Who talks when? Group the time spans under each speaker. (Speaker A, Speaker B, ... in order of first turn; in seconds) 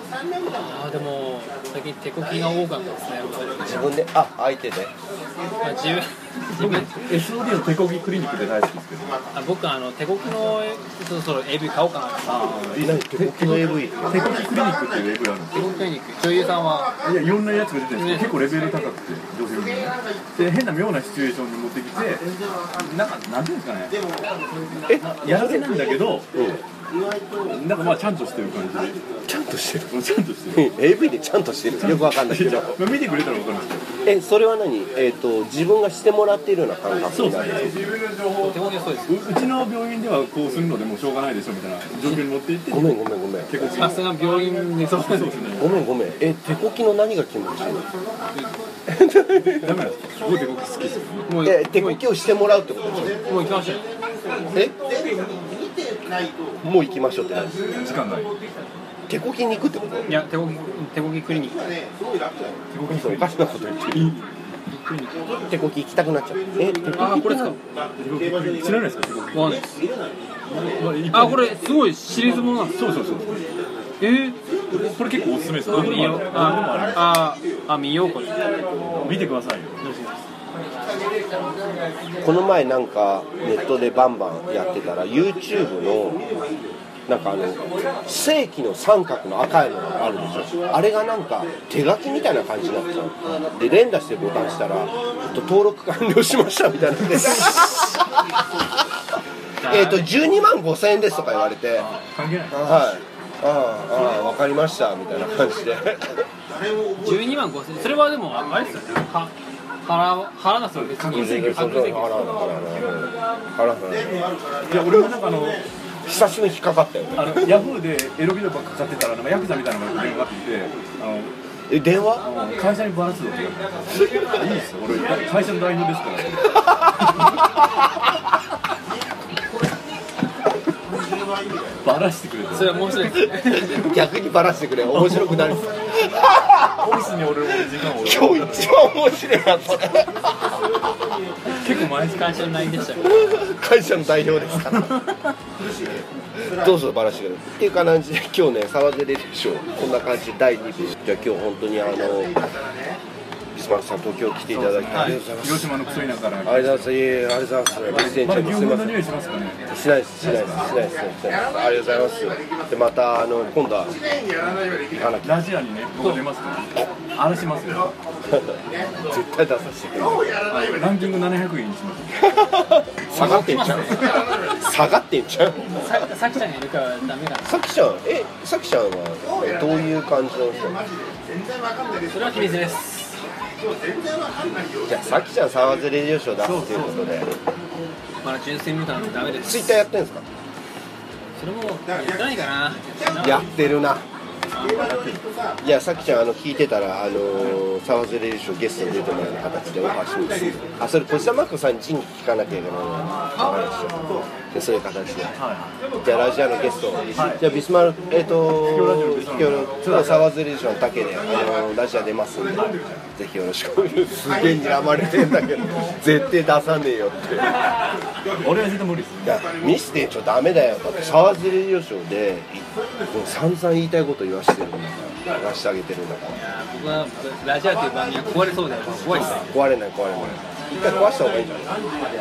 Speaker A: 0.5-3.9, 5.6-7.0, 9.3-12.6, 15.5-16.9, 17.9-18.4, 38.4-39.2, 43.6-45.4, 51.3-52.0, 53.3-53.8, 60.1-61.7, 64.9-65.2, 66.9-67.6, 69.3-69.7, 71.1-72.8, 74.0-74.4, 75.7-78.4, 79.8-80.2, 99.6-100.1, 107.0-109.3, 109.8-111.7, 132.5-133.9, 141.7-143.4, 154.9-155.2, 173.1-174.2, 175.7-177.5, 182.1-183.2, 188.2-189.8, 191.4-193.4, 194.5-195.0, 226.4-229.5
Speaker B: 3.6-4.9, 12.7-14.4, 24.9-26.6, 29.3-30.0, 30.5-32.8, 34.0-38.0, 42.7-43.7, 45.6-47.9, 48.9-49.9, 51.4-53.5, 54.5-54.8, 56.6-58.0, 59.1-60.2, 62.9-64.1, 65.4-67.6, 82.2-86.2, 87.1-98.4, 99.7-101.9, 102.5-106.2, 111.1-114.2, 116.0-117.7, 121.7-122.2, 133.5-136.8, 137.7-140.3, 143.0-144.9, 146.4-152.4, 153.5-155.7, 156.4-159.0, 159.7-164.0, 164.9-165.4, 168.3-170.4, 172.2-175.8, 177.4-180.8, 184.8-187.3, 189.4-190.2, 193.2-194.0, 195.6-205.4, 206.0-217.6, 219.2-226.4, 229.1-231.8
Speaker C: 6.5-9.1, 12.2-15.7, 17.0-24.0, 24.9-26.3, 27.5-29.0, 29.9-30.7, 31.8-33.8, 37.1-38.5, 39.1-42.9, 43.5-44.1, 45.0-45.7, 49.5-51.3, 57.7-58.3, 62.7-63.3, 63.9-65.1, 68.0-69.7, 70.5-71.6, 72.7-73.4, 74.7-77.2, 79.0-79.8, 101.8-102.7, 110.7-112.3, 114.7-115.7, 117.2-121.3, 122.2-126.9, 131.8-132.8, 134.9-135.6, 136.6-138.8, 141.5-142.6, 144.7-145.1, 154.5-156.9, 158.1-159.6, 160.2-160.7, 165.2-167.9, 170.4-172.3, 173.2-174.2, 186.4-187.1, 194.7-195.2, 205.3-205.7, 207.2-207.4, 208.5-210.2, 218.4-219.4